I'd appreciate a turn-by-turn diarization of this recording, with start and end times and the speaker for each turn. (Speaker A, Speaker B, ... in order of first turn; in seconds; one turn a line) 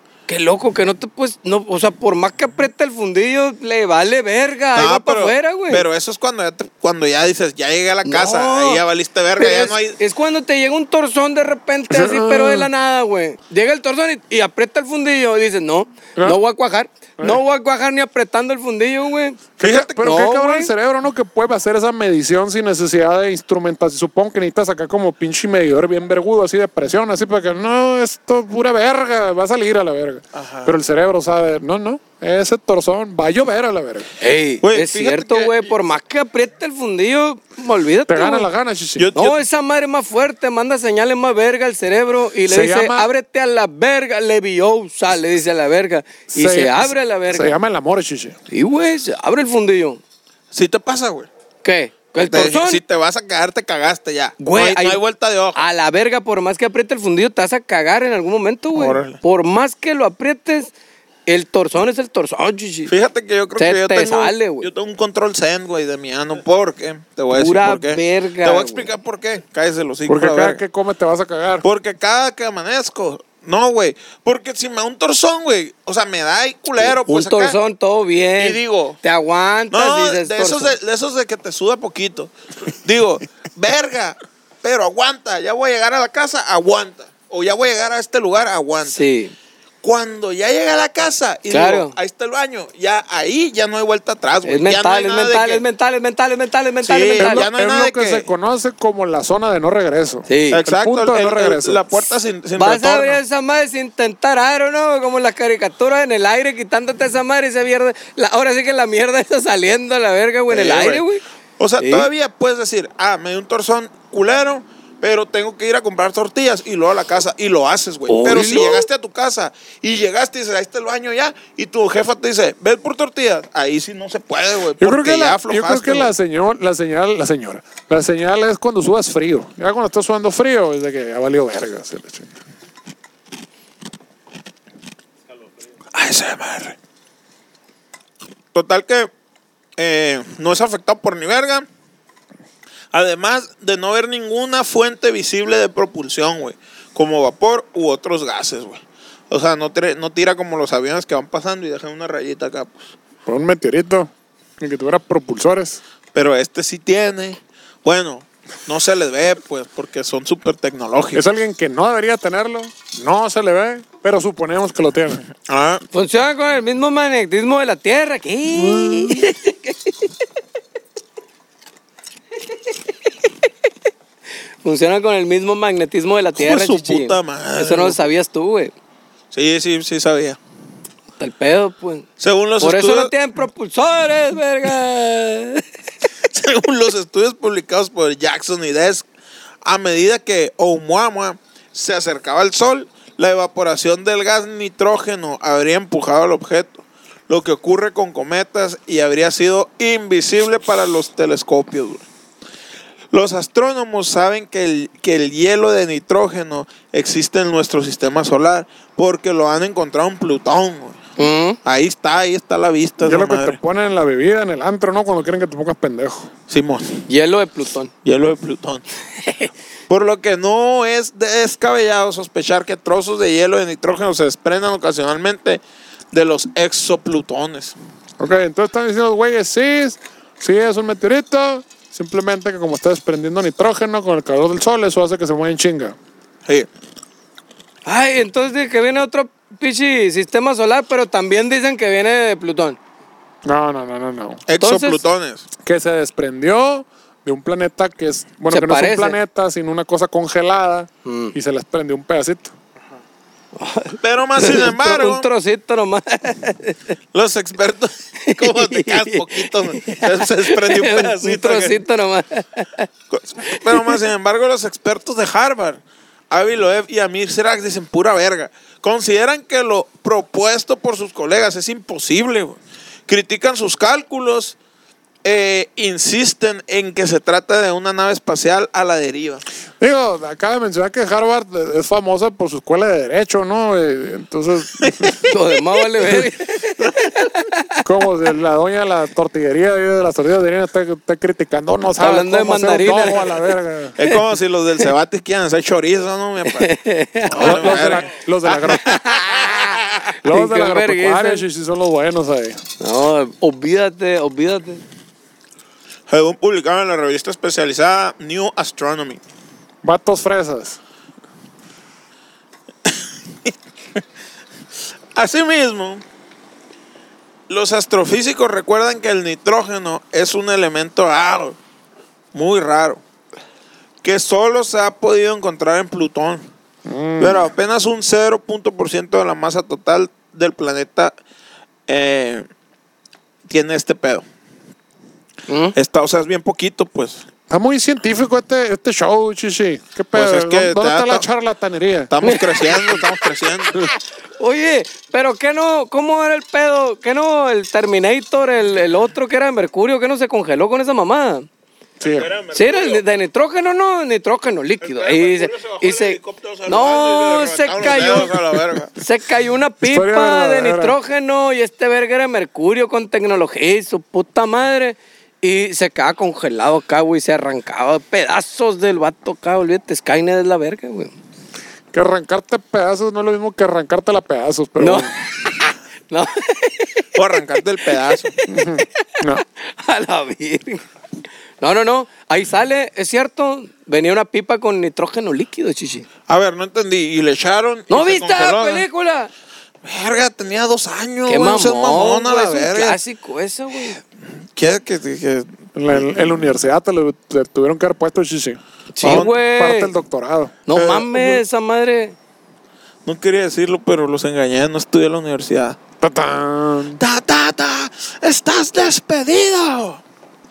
Speaker A: 0.3-5.8
Speaker B: 4.7-10.0
Speaker A: 8.0-8.8
Speaker A: 9.4-20.7
Speaker C: 11.9-12.7
Speaker C: 19.6-34.1
Speaker B: 19.6-20.2
Speaker B: 30.3-30.8
Speaker A: 34.2-38.5
Speaker B: 34.6-35.6
Speaker C: 38.1-39.1
Speaker B: 39.0-39.4
Speaker A: 39.1-47.5
Speaker C: 42.5-43.1
Speaker C: 46.3-48.4
Speaker A: 48.5-50.0
Speaker B: 50.5-51.3
Speaker A: 51.6-52.8
Speaker B: 52.1-55.6
Speaker A: 54.4-55.0
Speaker A: 55.5-60.7
Speaker B: 58.7-59.2
Speaker A: 61.3-62.9
Speaker B: 62.9-70.6
Speaker A: 63.6-64.7
Speaker A: 67.3-68.9
Speaker C: 70.1-71.7
Speaker B: 71.6-77.6
Speaker A: 76.8-80.7
Speaker B: 78.4-79.0
Speaker B: 79.7-89.0
Speaker A: 88.8-89.3
Speaker B: 89.8-95.6
Speaker A: 91.5-91.9
Speaker A: 94.4-97.5
Speaker B: 96.8-98.3
Speaker C: 97.2-101.8
Speaker A: 100.3-100.6
Speaker B: 100.5-103.2
Speaker A: 102.5-111.2
Speaker B: 110.5-111.0
Speaker B: 111.6-126.1
Speaker A: 111.8-112.1
Speaker A: 118.1-118.9
Speaker C: 124.8-132.3
Speaker B: 135.9-136.8
Speaker B: 138.5-139.1
Speaker B: 139.8-141.7
Speaker B: 142.9-152.9
Speaker C: 153.2-155.8
Speaker B: 156.1-161.3
Speaker C: 161.1-165.2
Speaker B: 165.4-165.8
Speaker A: 165.9-170.1
Speaker A: 174.6-178.7
Speaker B: 176.3-178.0
Speaker B: 179.3-180.4
Speaker A: 181.2-182.1
Speaker B: 182.2-183.1
Speaker A: 182.6-185.6
Speaker B: 186.2-189.1
Speaker B: 189.6-202.0
Speaker B: 203.1-211.0
Speaker A: 211.2-211.6
Speaker B: 211.6-213.6
Speaker C: 213.0-216.3
Speaker B: 216.5-217.0
Speaker A: 217.1-217.9
Speaker B: 218.0-218.8
Speaker B: 219.9-225.6
Speaker B: 226.1-227.8
Speaker C: 228.2-235.9
Speaker A: 237.8-242.8
Speaker C: 243.4-244.4
Speaker B: 244.5-245.4
Speaker A: 244.6-245.0
Speaker C: 245.6-252.5
Speaker A: 248.5-249.2
Speaker A: 251.0-251.3
Speaker A: 253.6-256.9
Speaker B: 254.0-255.3
Speaker B: 257.1-261.8
Speaker A: 258.2-262.9
Speaker B: 263.1-274.6
Speaker A: 263.5-264.0
Speaker B: 275.2-279.4
Speaker C: 279.8-285.2
Speaker B: 284.8-285.2
Speaker A: 285.2-287.7
Speaker B: 286.8-287.1
Speaker C: 287.8-293.9
Speaker A: 292.0-294.2
Speaker B: 294.0-296.7
Speaker A: 296.4-298.0
Speaker B: 297.3-300.1
Speaker C: 297.3-299.0
Speaker A: 298.7-299.5
Speaker C: 300.2-302.6
Speaker A: 300.2-301.4
Speaker A: 302.8-304.8
Speaker B: 306.1-309.2
Speaker C: 309.8-310.8
Speaker B: 312.9-314.0
Speaker B: 315.1-316.0
Speaker B: 317.5-321.6
Speaker B: 322.3-323.0
Speaker B: 324.0-326.4
Speaker C: 326.9-327.4
Speaker B: 327.2-331.2
Speaker B: 331.9-332.5
Speaker B: 333.5-334.2
Speaker A: 335.5-335.7
Speaker B: 335.7-337.2
Speaker C: 337.5-342.1
Speaker B: 340.1-341.2
Speaker B: 342.1-343.8
Speaker A: 342.2-343.0
Speaker A: 344.4-351.5
Speaker C: 352.0-352.3
Speaker B: 352.0-353.0
Speaker A: 352.5-371.1
Speaker B: 354.8-358.9
Speaker C: 359.9-360.9
Speaker C: 371.9-375.1
Speaker A: 374.8-377.1
Speaker B: 377.1-378.3
Speaker A: 378.2-379.0
Speaker C: 378.5-379.4
Speaker A: 379.8-380.8
Speaker A: 381.6-386.1
Speaker B: 386.3-388.9
Speaker A: 387.9-389.3
Speaker B: 389.8-393.0
Speaker A: 391.3-394.0
Speaker B: 394.5-396.4
Speaker C: 395.7-400.7
Speaker A: 398.9-399.9
Speaker B: 399.0-399.3
Speaker A: 400.7-402.1
Speaker B: 403.0-405.8
Speaker C: 406.0-407.0
Speaker B: 407.0-410.0